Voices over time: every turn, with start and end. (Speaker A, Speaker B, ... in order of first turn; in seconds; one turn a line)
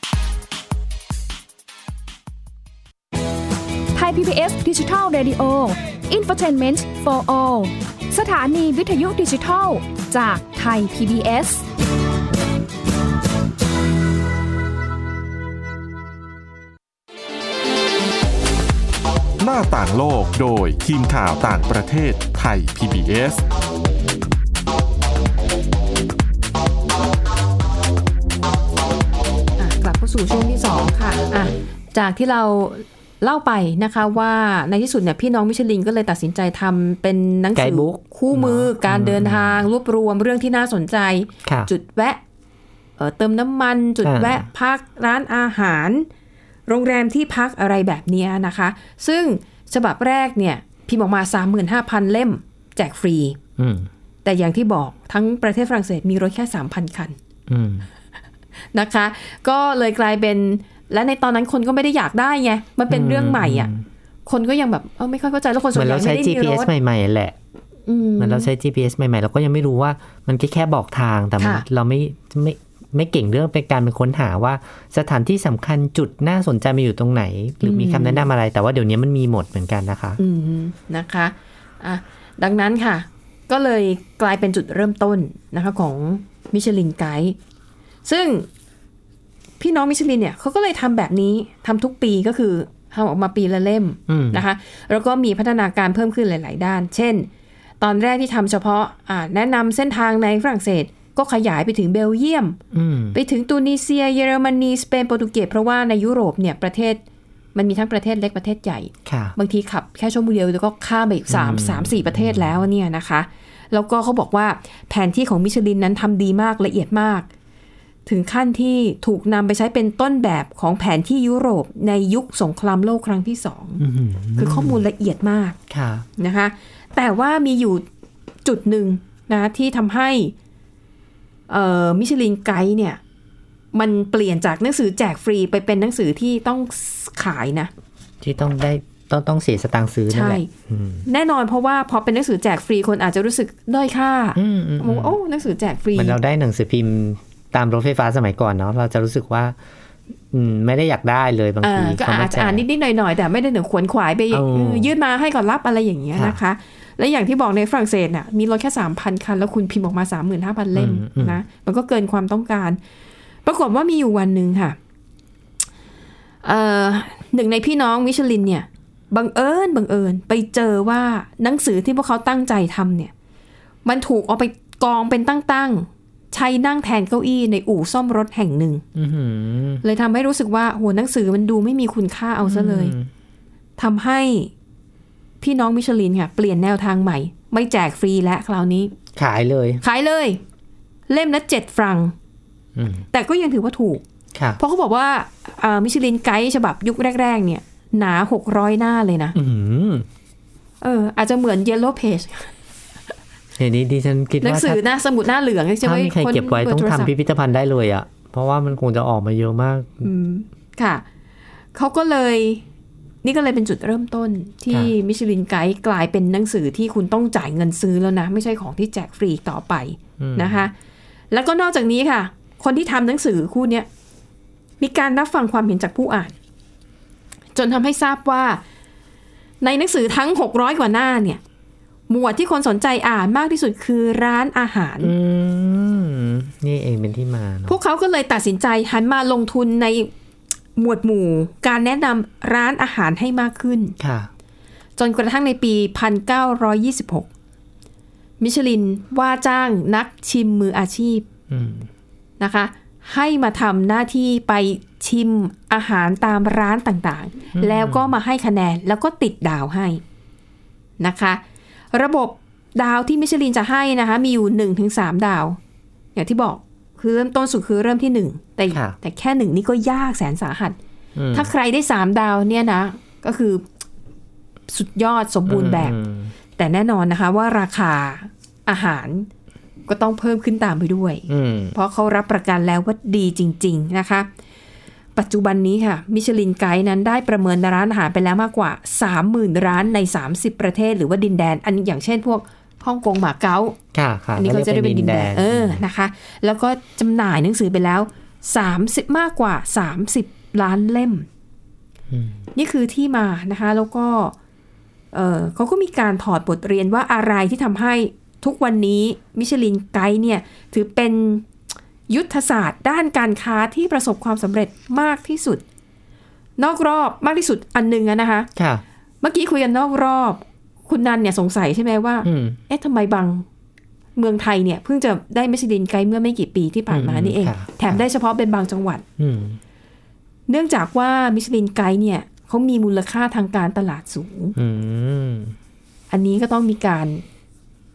Speaker A: 3.9-11.6
Speaker B: 19.4-23.4
Speaker C: 29.6-42.2
Speaker D: 37.5-39.7
Speaker D: 41.5-41.7
Speaker C: 43.0-46.1
Speaker D: 44.0-44.5
Speaker C: 46.7-53.4
Speaker D: 53.6-53.9
Speaker C: 54.2-57.2
Speaker D: 57.5-57.9
Speaker C: 58.7-63.7
Speaker D: 62.9-63.9
Speaker C: 64.3-66.7
Speaker D: 65.7-67.4
Speaker C: 67.9-68.5
Speaker D: 68.2-80.2
Speaker C: 77.6-78.3
Speaker C: 80.2-87.4
Speaker C: 88.0-88.5
Speaker C: 89.6-97.3
Speaker D: 94.1-94.4
Speaker C: 97.8-102.6
Speaker D: 102.7-103.2
Speaker C: 103.1-107.0
Speaker C: 107.5-117.3
Speaker D: 109.0-109.4
Speaker D: 111.3-112.5
Speaker C: 118.1-123.8
Speaker D: 123.8-124.8
Speaker C: 124.4-125.6
Speaker D: 125.7-126.1
Speaker C: 126.2-127.8
Speaker C: 128.4-130.3
Speaker C: 131.5-133.0
Speaker C: 133.7-137.7
Speaker D: 138.2-141.1
Speaker C: 140.1-140.5
Speaker C: 141.1-146.2
Speaker D: 144.4-145.2
Speaker D: 145.9-149.6
Speaker D: 150.3-152.7
Speaker C: 151.6-162.8
Speaker D: 154.3-154.9
Speaker D: 160.7-161.4
Speaker C: 163.4-164.8
Speaker C: 166.4-173.1
Speaker C: 173.8-178.8
Speaker D: 178.9-179.8
Speaker C: 179.8-182.9
Speaker D: 182.4-183.1
Speaker C: 183.8-184.5
Speaker C: 185.4-188.9
Speaker D: 189.2-189.8
Speaker C: 189.8-190.4
Speaker C: 191.1-192.1
Speaker D: 192.8-193.1
Speaker C: 193.1-194.0
Speaker C: 194.6-199.4
Speaker D: 199.3-200.1
Speaker C: 200.8-202.5
Speaker D: 203.6-204.8
Speaker C: 204.4-207.1
Speaker D: 205.8-210.1
Speaker C: 210.0-211.0
Speaker C: 211.8-212.6
Speaker C: 213.2-220.7
Speaker D: 220.2-220.7
Speaker C: 221.3-223.9
Speaker C: 224.8-226.3
Speaker C: 227.6-228.6
Speaker C: 229.6-231.4
Speaker C: 232.1-235.1
Speaker D: 235.0-237.8
Speaker C: 237.7-240.1
Speaker C: 240.8-243.9
Speaker D: 244.0-244.3
Speaker C: 245.0-247.3
Speaker C: 248.4-251.2
Speaker D: 251.5-251.9
Speaker C: 252.4-260.0
Speaker D: 257.6-258.2
Speaker C: 261.0-261.4
Speaker C: 261.9-265.6
Speaker C: 266.1-270.8
Speaker D: 268.7-269.0
Speaker D: 271.2-271.5
Speaker C: 271.3-273.6
Speaker C: 274.7-275.9
Speaker D: 275.5-276.3
Speaker C: 276.6-279.3
Speaker C: 279.9-284.3
Speaker D: 281.3-281.8
Speaker C: 285.2-293.8
Speaker D: 293.9-295.8
Speaker C: 294.4-301.3
Speaker D: 302.1-302.4
Speaker C: 302.6-304.4
Speaker C: 305.1-311.5
Speaker C: 312.1-315.6
Speaker C: 316.6-318.5
Speaker D: 318.6-318.8
Speaker C: 319.2-323.4
Speaker D: 322.2-322.6
Speaker C: 324.2-329.0
Speaker D: 326.9-328.0
Speaker D: 329.2-329.6
Speaker C: 330.5-334.6
Speaker D: 334.6-335.6
Speaker C: 336.1-337.2